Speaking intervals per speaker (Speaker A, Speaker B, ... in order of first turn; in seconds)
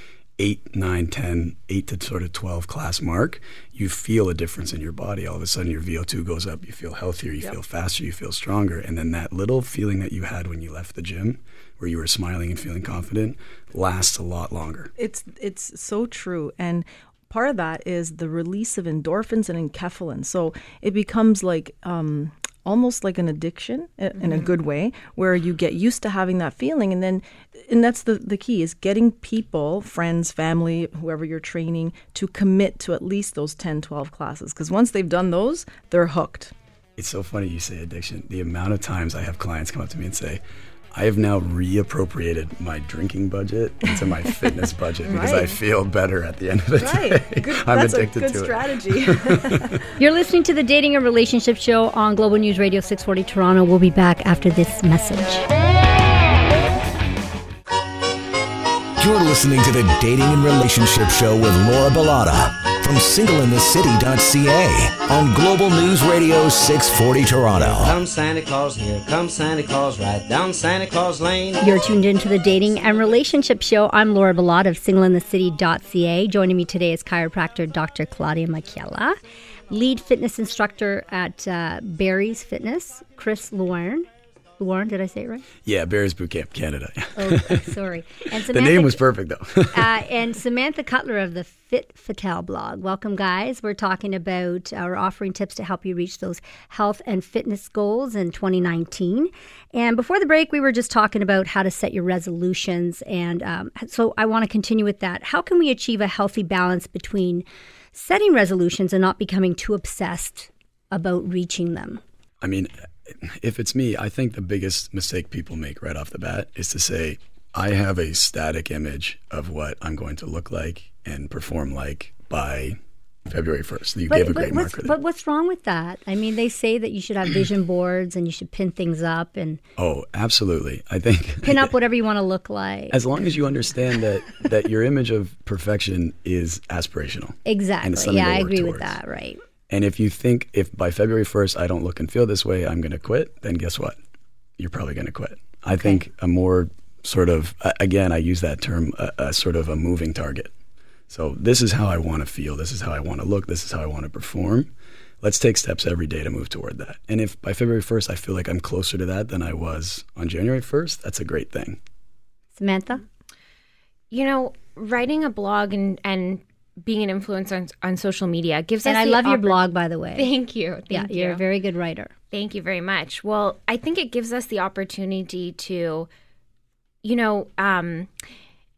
Speaker A: 0.4-14.9, 37.0-40.4, 40.9-49.8, 85.7-87.8, 88.5-90.0, 112.4-125.0, 129.8-131.7, 132.9-139.0, 139.7-144.0, 144.6-150.5, 151.1-154.7, 155.2-161.8
Speaker B: 15.0-36.5, 45.1-45.6, 46.8-49.8
Speaker C: 50.0-55.5, 71.6-79.2, 79.7-85.5, 87.2-89.0, 89.7-112.0, 124.1-129.6, 131.4-133.1, 137.5-139.4, 145.8-146.0, 162.5-163.0, 168.8-170.3, 170.9-172.1
Speaker D: 59.0-67.9
Speaker E: 67.6-71.8
Speaker F: 164.1-171.4, 172.3-176.1, 177.0-178.1